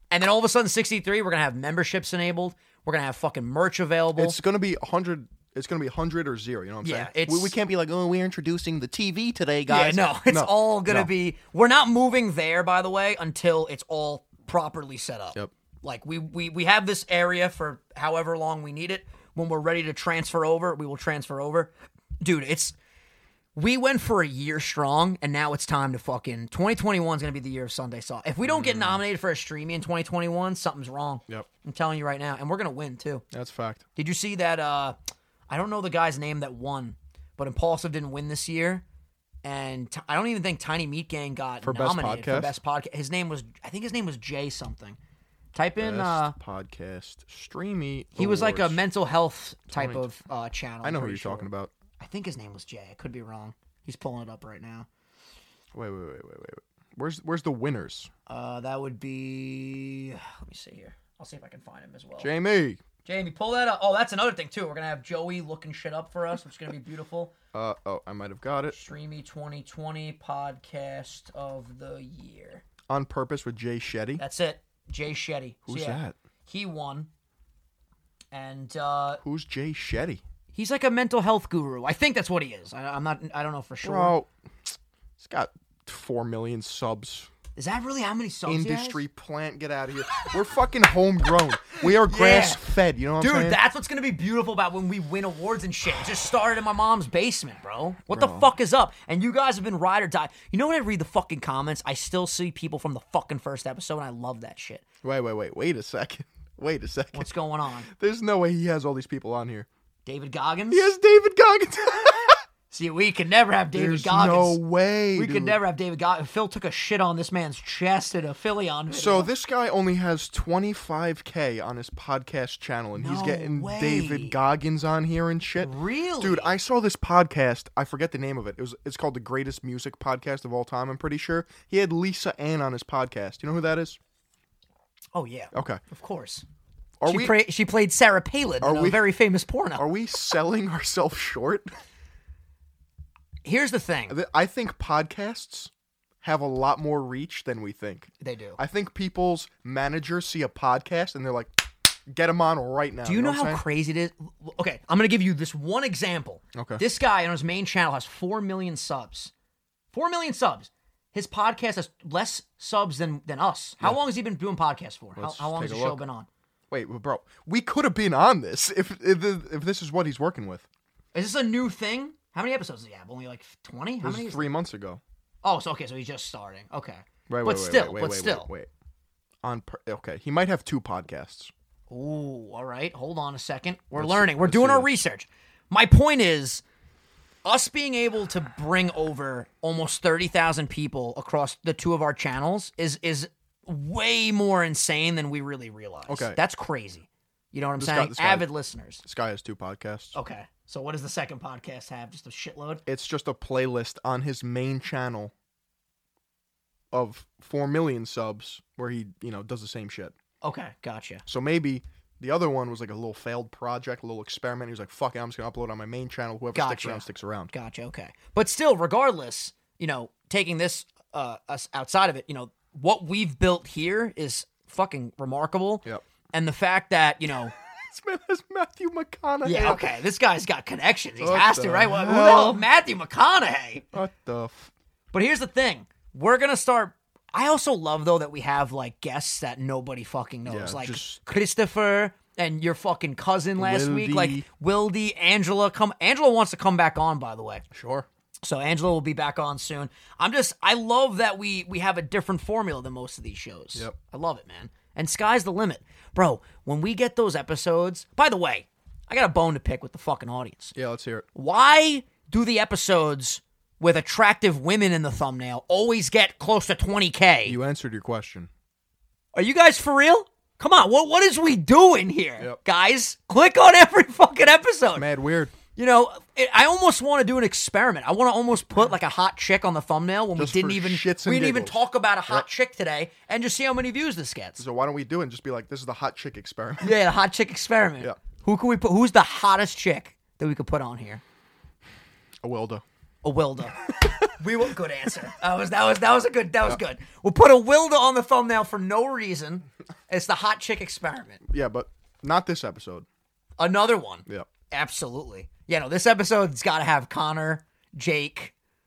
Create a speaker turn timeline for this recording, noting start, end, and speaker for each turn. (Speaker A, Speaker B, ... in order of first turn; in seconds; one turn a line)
Speaker A: 0.1-4.4
Speaker B: 4.2-11.1
Speaker A: 6.8-7.5
Speaker A: 9.7-22.8
Speaker A: 23.6-33.2
Speaker B: 28.4-29.0
Speaker B: 33.3-33.9
Speaker A: 34.0-35.0
Speaker A: 35.5-38.8
Speaker A: 39.4-45.0
Speaker B: 41.6-42.5
Speaker A: 45.5-46.4
Speaker B: 45.8-48.8
Speaker A: 48.2-54.9
Speaker B: 49.7-50.1
Speaker B: 50.8-51.7
Speaker B: 55.7-58.1
Speaker A: 58.3-62.3
Speaker B: 62.2-62.8
Speaker A: 63.0-67.3
Speaker B: 67.5-68.8
Speaker A: 68.7-72.6
Speaker B: 72.9-74.2
Speaker A: 74.2-77.1
Speaker B: 75.7-76.2
Speaker A: 78.3-79.2
Speaker B: 79.2-80.2
Speaker A: 80.5-84.2
Speaker B: 83.8-87.3
Speaker A: 87.6-89.0
Speaker B: 88.5-93.6
Speaker A: 91.8-92.6
Speaker A: 93.2-104.8
Speaker B: 98.1-98.5
Speaker B: 105.0-107.3
Speaker A: 107.1-107.9
Speaker B: 107.9-109.7
Speaker A: 110.1-110.9
Speaker B: 110.7-112.4
Speaker A: 112.7-114.6
Speaker B: 113.7-115.6
Speaker A: 115.2-119.3
Speaker B: 118.9-134.0
Speaker A: 123.0-124.4
Speaker A: 125.6-126.6
Speaker A: 135.1-136.4
Speaker B: 135.5-135.8
Speaker B: 137.0-137.4
Speaker A: 137.1-139.9
Speaker B: 138.6-139.1
Speaker B: 139.8-141.7
Speaker A: 143.4-144.2
Speaker B: 144.1-145.7
Speaker B: 146.2-153.6
Speaker A: 148.2-148.6
Speaker A: 153.1-159.3
Speaker B: 156.5-156.8
Speaker A: 159.9-166.3
Speaker B: 165.2-166.0
Speaker B: 166.7-170.7
Speaker A: 171.1-174.5
Speaker B: 174.0-175.0
Speaker A: 175.4-178.5
Speaker B: 177.3-178.7
Speaker B: 179.4-181.5
Speaker A: 181.9-186.6
Speaker B: 183.9-184.9
Speaker A: 187.4-199.0
Speaker B: 196.1-196.4
Speaker B: 197.8-198.5
Speaker B: 199.0-200.2
Speaker A: 200.1-202.8
Speaker B: 202.9-205.3
Speaker B: 206.9-210.1
Speaker A: 210.4-211.2
Speaker B: 211.3-217.5
Speaker A: 216.5-227.5
Speaker B: 227.6-229.9
Speaker A: 229.4-233.9
Speaker B: 231.2-232.7
Speaker B: 233.9-234.7
Speaker A: 235.1-247.6
Speaker B: 240.5-241.2
Speaker B: 243.6-244.5
Speaker B: 247.7-248.1
Speaker A: 248.4-260.8
Speaker B: 260.8-261.3
Speaker A: 261.3-267.6
Speaker B: 267.5-268.5
Speaker A: 269.3-275.1
Speaker B: 274.9-275.6
Speaker A: 275.8-284.6
Speaker B: 280.4-282.4
Speaker B: 284.6-287.0
Speaker A: 286.8-291.2
Speaker B: 292.4-292.8
Speaker A: 293.2-301.4
Speaker B: 301.5-303.1
Speaker A: 303.6-308.5